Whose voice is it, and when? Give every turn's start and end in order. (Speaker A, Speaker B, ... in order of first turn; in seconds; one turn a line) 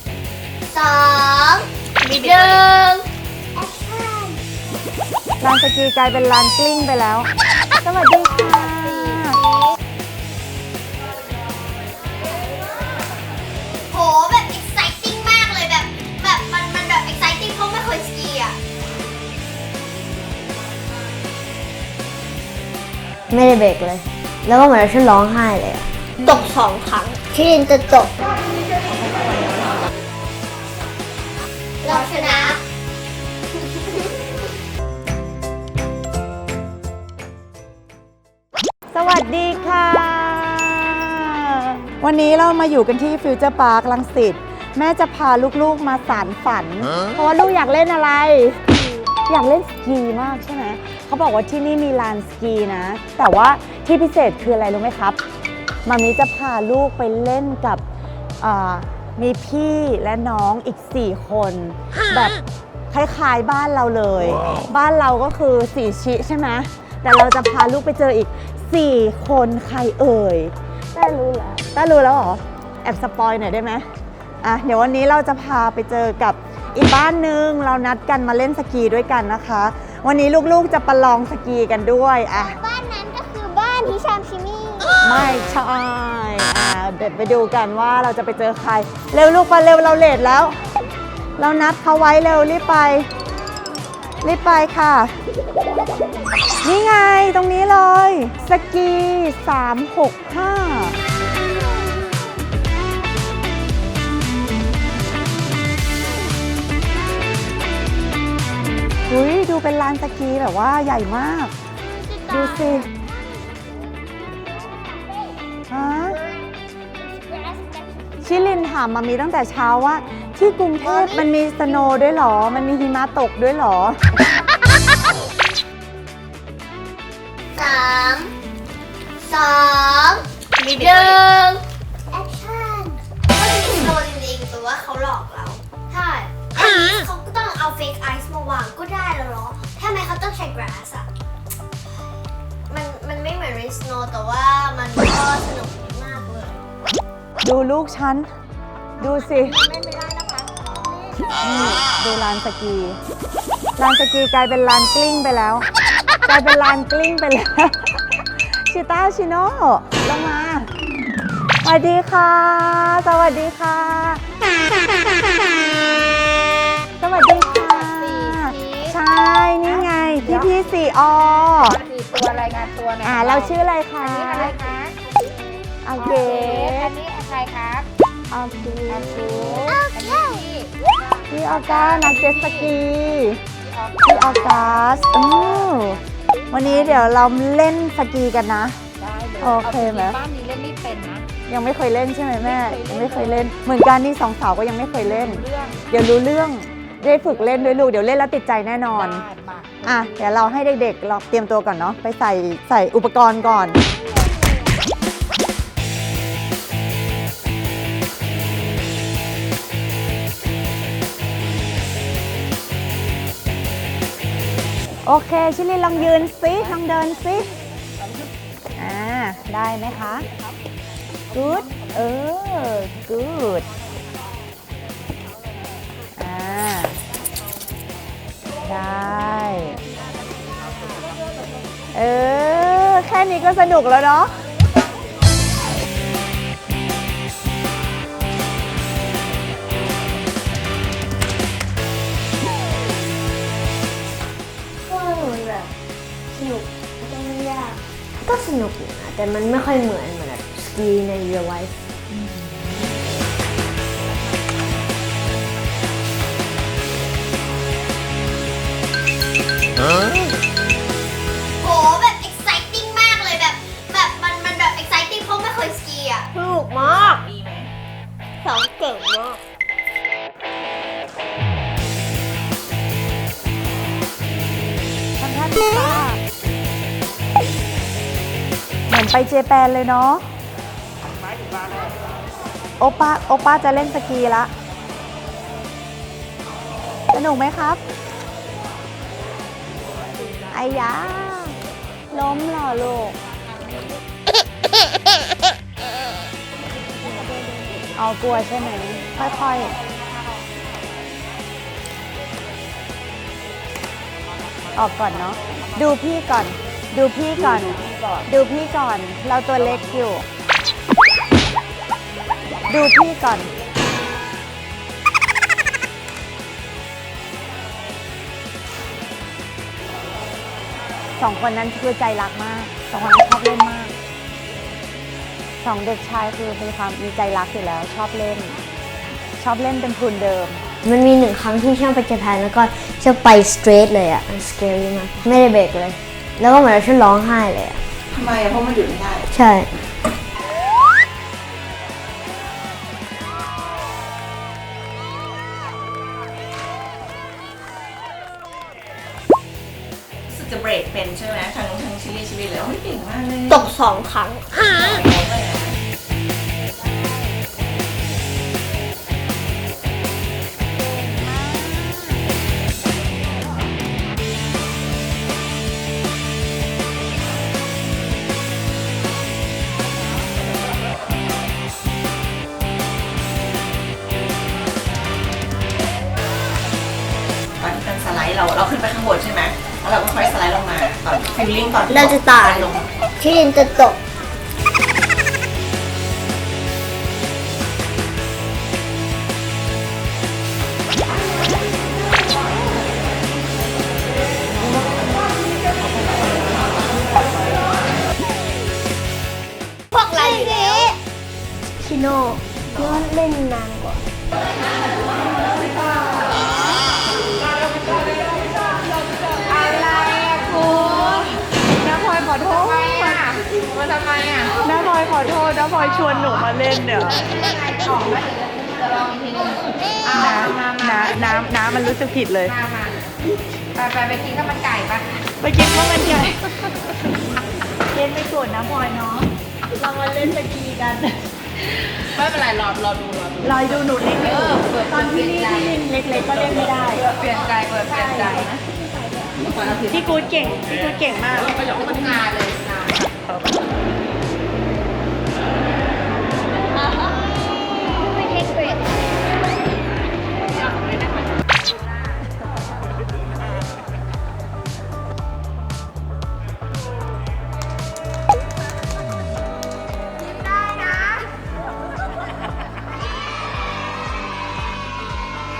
Speaker A: 0.7-1.7
Speaker B: 2.0-2.7
Speaker C: 2.3-2.6
Speaker A: 3.6-4.4
Speaker D: 5.4-7.3
Speaker D: 7.8-9.4
Speaker A: 13.9-18.6
Speaker C: 23.3-27.8
Speaker A: 31.8-32.6
Speaker D: 38.9-48.6
Speaker D: 49.2-55.2
Speaker D: 55.9-57.8
Speaker D: 58.4-62.4
Speaker D: 62.9-73.8
Speaker D: 74.4-82.6
Speaker D: 85.0-90.6
Speaker D: 91.4-93.1
Speaker D: 94.2-95.1
Speaker D: 96.6-101.0
Speaker D: 109.1-111.5
Speaker D: 112.3-112.9
Speaker D: 115.7-116.2
Speaker D: 118.2-124.0
Speaker A: 127.5-128.3
Speaker A: 129.2-130.2
Speaker B: 130.6-131.2
Speaker A: 130.8-131.1
Speaker C: 130.8-131.6
Speaker A: 132.1-132.8
Speaker A: 133.3-135.6
Speaker A: 136.4-138.4
Speaker C: 143.1-143.8
Speaker C: 146.3-146.6
Speaker D: 147.4-148.3
Speaker D: 149.0-149.6
Speaker C: 149.7-150.6
Speaker D: 151.4-153.0
Speaker D: 153.8-155.7
Speaker D: 156.2-160.7
Speaker D: 161.6-164.2
Speaker D: 167.0-171.8
Speaker E: 167.2-169.0
Speaker E: 169.6-170.8
Speaker E: 171.6-174.9
Speaker D: 173.0-174.6
Speaker D: 175.8-176.9
Speaker E: 175.9-177.9
Speaker D: 178.3-179.8
Speaker E: 178.9-182.8
Speaker D: 181.3-183.4
Speaker E: 183.6-186.0
Speaker D: 184.0-186.0
Speaker D: 186.5-188.8
Speaker E: 186.6-187.1
Speaker E: 189.0-191.3
Speaker D: 189.4-190.2
Speaker D: 191.5-199.2
Speaker E: 192.4-193.5
Speaker E: 195.0-195.8
Speaker E: 197.2-197.8
Speaker E: 198.9-200.2
Speaker D: 199.8-203.8
Speaker D: 215.1-217.5
Speaker D: 218.8-220.2
Speaker D: 221.3-223.7
Speaker D: 226.2-226.9
Speaker D: 228.6-229.8
Speaker D: 231.9-234.3
Speaker C: 244.8-245.7
Speaker C: 246.3-251.8
Speaker A: 261.6-266.3
Speaker C: 266.3-267.2
Speaker B: 266.8-267.7
Speaker C: 268.4-269.4
Speaker D: 275.2-276.2
Speaker D: 278.9-280.2
Speaker D: 282.8-284.5
Speaker D: 287.1-287.8
Speaker D: 290.5-291.6
Speaker D: 292.1-293.1
Speaker D: 297.9-299.7
Speaker D: 304.7-310.2
Speaker D: 312.7-313.5
Speaker D: 321.2-323.9
Speaker D: 325.6-328.6
Speaker D: 329.4-330.6
Speaker C: 330.8-337.8
Speaker B: 338.1-339.3
Speaker C: 339.3-339.8
Speaker B: 350.3-353.7
Speaker C: 353.5-354.6
Speaker B: 354.8-355.8
Speaker D: 360.9-362.2
Speaker B: 377.6-382.9
Speaker C: 381.9-383.9
Speaker A: 399.9-400.9
Speaker C: 400.0-400.9
Speaker C: 401.8-404.0
Speaker E: 409.4-411.3
Speaker D: 410.6-411.3
Speaker D: 411.8-413.2
Speaker E: 412.4-414.6
Speaker D: 414.6-417.2
Speaker E: 417.0-421.5
Speaker D: 420.1-422.5
Speaker E: 422.4-423.0
Speaker E: 423.7-425.1
Speaker D: 425.4-426.6
Speaker D: 427.9-431.2
Speaker E: 431.6-435.8
Speaker D: 433.4-437.1
Speaker E: 437.0-438.6
Speaker D: 437.9-438.4
Speaker E: 439.4-440.0
Speaker D: 439.9-441.7
Speaker E: 441.5-443.1
Speaker E: 448.3-448.7
Speaker E: 460.2-461.3